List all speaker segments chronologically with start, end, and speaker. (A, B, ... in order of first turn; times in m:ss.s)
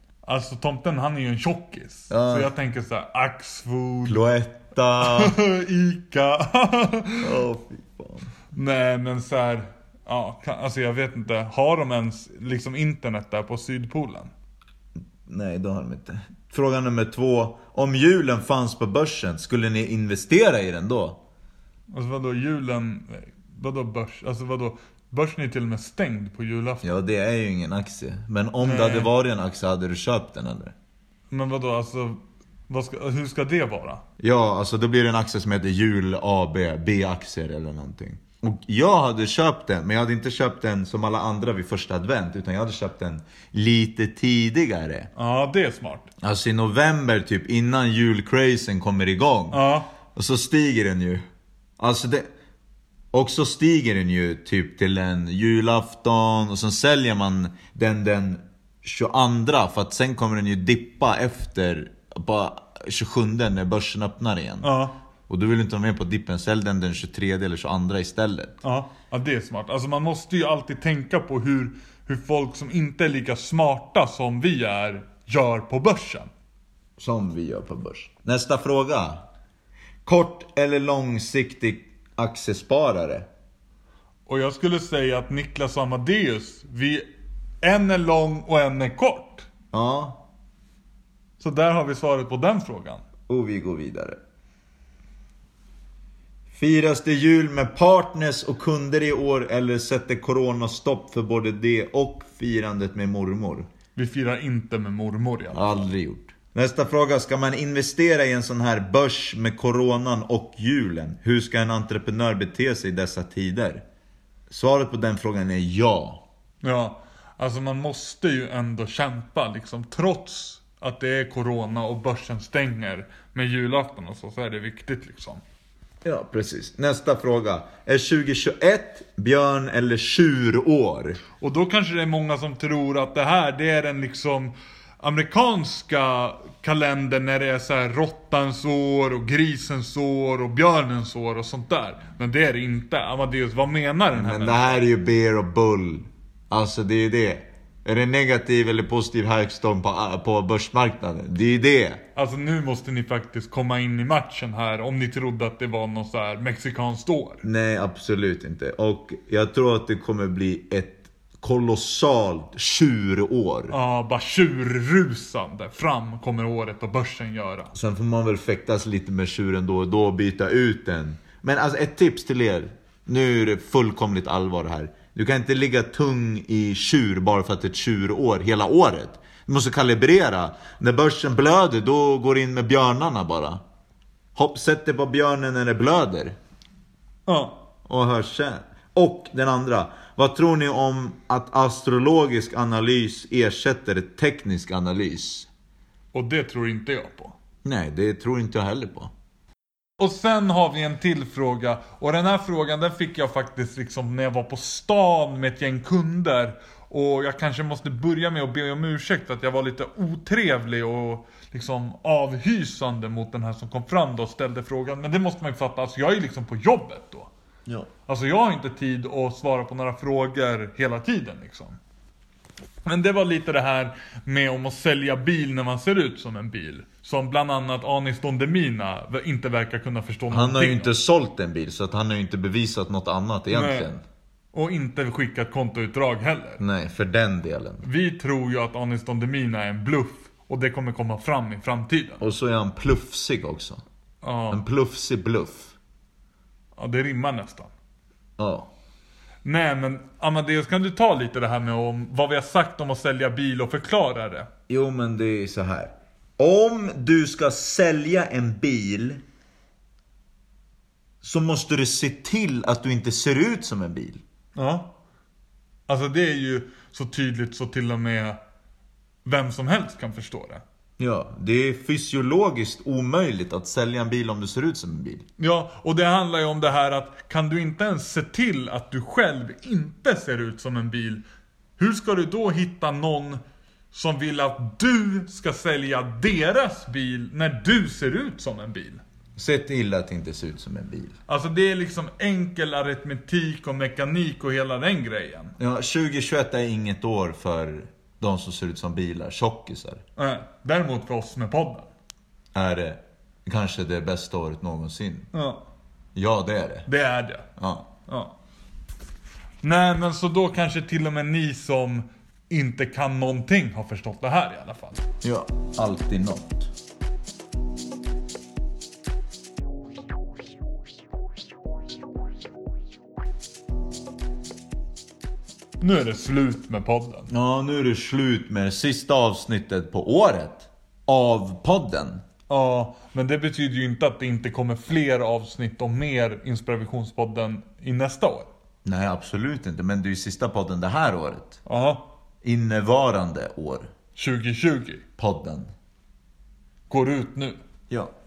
0:00.2-0:04.2 A
0:02.1-0:02.5 B
0:04.0-0:05.4 B
0:05.0-0:07.4 A
0:07.2-0:08.3 B
0:08.5-0:14.3 A
0:15.2-0:21.2 B
0:21.9-0:26.9 A
0:26.8-0:30.7 B
0:28.6-0:29.1 A
0:31.3-0:34.0 A
0:34.2-0:45.1 B
0:45.2-0:46.1 A
0:46.2-0:49.6 B
0:49.5-0:49.9 A
0:50.1-0:51.2 B
0:51.8-0:52.3 B
0:53.1-1:04.7 B
1:04.6-1:04.9 A
1:05.3-1:08.6 B
1:08.6-1:16.3 A
1:17.0-1:19.2 B
1:20.0-1:23.3 B
1:24.3-1:27.0 A
1:27.6-1:29.5 A
1:29.7-1:30.2 B
1:31.4-1:33.0 A
1:33.3-1:34.2 B
1:36.5-1:43.7 B
1:43.9-1:45.9 A
1:45.5-1:53.8 B
1:54.5-1:56.2 B
1:56.6-2:05.4 A
2:06.0-2:11.2 B
2:11.4-2:24.8 A
2:24.1-2:32.0 B
2:32.1-2:37.4 A
2:37.4-2:43.7 B
2:43.7-2:47.7 A
2:47.7-3:03.6 B
3:04.4-3:06.4 B
3:07.3-3:07.6 A
3:07.8-3:15.5 B
3:16.1-3:17.3 A
3:17.6-3:19.1 B
3:20.0-3:37.3 A
3:38.1-3:41.8 A
3:42.8-3:50.9 A
3:50.3-3:54.0 B
3:53.5-3:53.9 A
3:54.5-3:56.6 A
3:56.6-3:57.8 B
3:57.8-4:02.2 A
4:02.2-4:03.8 B
4:04.2-4:04.6 A
4:04.5-4:05.7 B
4:06.8-4:07.7 A
4:08.4-4:08.7 B
4:09.4-4:14.5 A
4:14.7-4:19.2 B
4:21.2-4:24.2 B
4:24.6-4:24.9 A
4:25.9-4:28.4 A
4:29.2-4:30.6 A
4:31.0-4:35.2 B
4:35.4-4:41.2 A
4:41.8-4:43.4 A
4:43.9-4:49.0 A
4:49.4-4:51.2 B
4:51.3-4:55.5 A
4:55.6-5:00.0 B
5:00.2-5:01.9 A
5:02.5-5:05.3 B
5:05.3-5:05.6 A
5:06.1-5:06.9 B
5:06.8-5:07.5 A
5:07.6-5:07.9 B
5:08.1-5:08.3 A
5:09.6-5:15.0 A
5:15.2-5:16.7 B
5:25.8-5:27.3 A
5:27.3-5:32.2 B
5:32.5-5:38.5 A
5:38.8-5:41.6 B
5:41.6-5:42.1 A
5:42.4-5:43.9 B
5:44.2-5:45.0 A
5:45.2-5:45.7 B
5:46.9-5:47.6 A